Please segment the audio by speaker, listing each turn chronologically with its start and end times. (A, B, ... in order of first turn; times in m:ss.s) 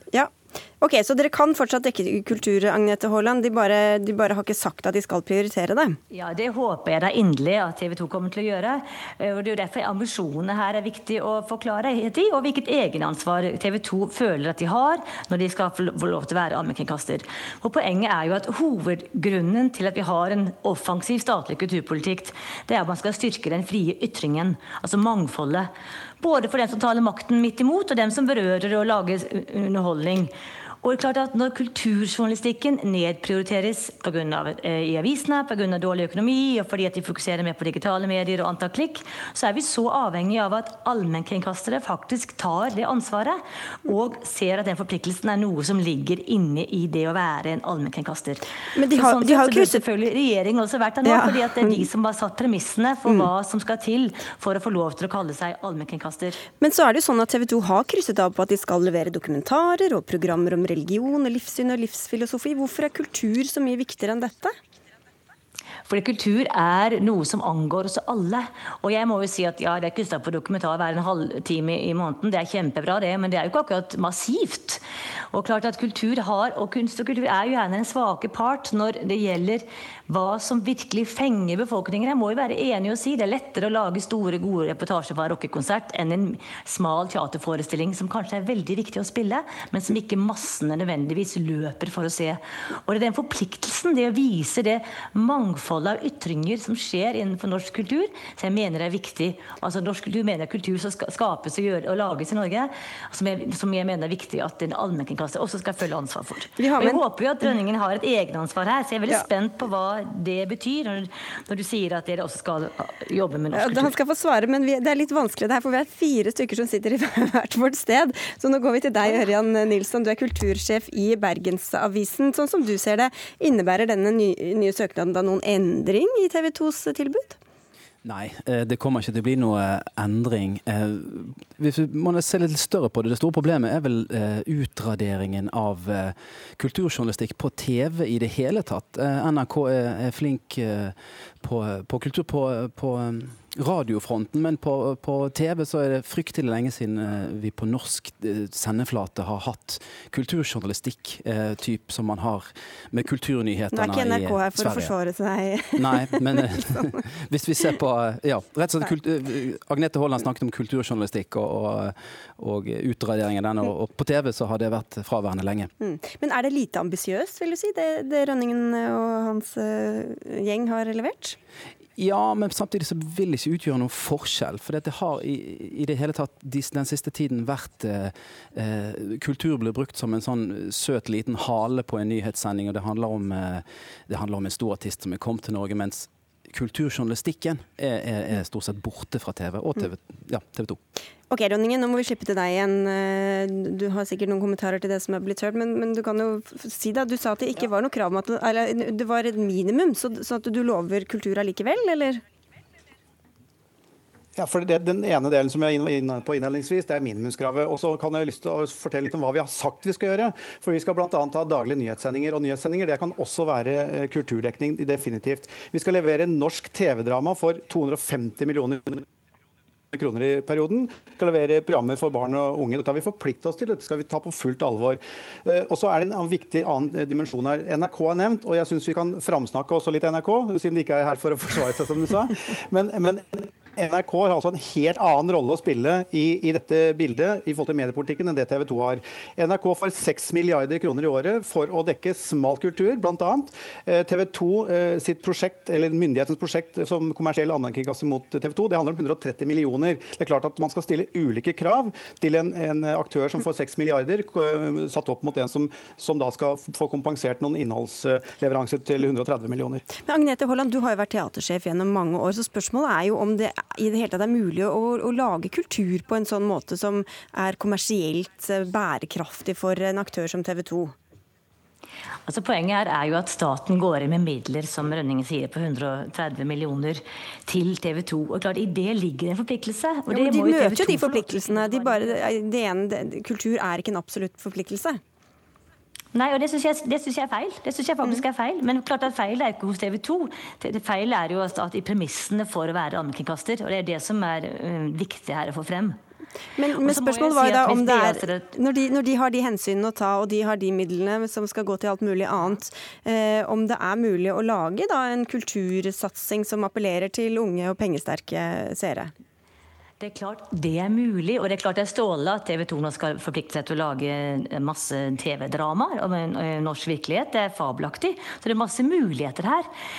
0:00.1-0:06.0 A
0:06.1-0:56.4 B
0:48.7-0:49.9 A
0:51.0-0:51.9 A
0:53.0-0:53.3 A
0:56.6-1:04.5 A
1:05.8-1:53.9 B
1:46.6-1:47.5 A
1:53.5-2:07.4 A
2:08.0-2:34.9 C
2:33.7-2:37.0 A
2:35.8-2:45.7 C
2:45.8-2:51.4 A
2:52.0-3:10.8 C
3:11.3-3:22.2 A
3:24.4-3:39.0 D
3:39.9-4:19.9 D
4:20.0-4:30.9 A
4:32.2-4:42.2 B
4:40.1-4:45.0 A
4:46.1-4:56.0 B
4:56.6-5:09.1 A
4:56.7-4:58.4 B
5:10.0-5:19.7 B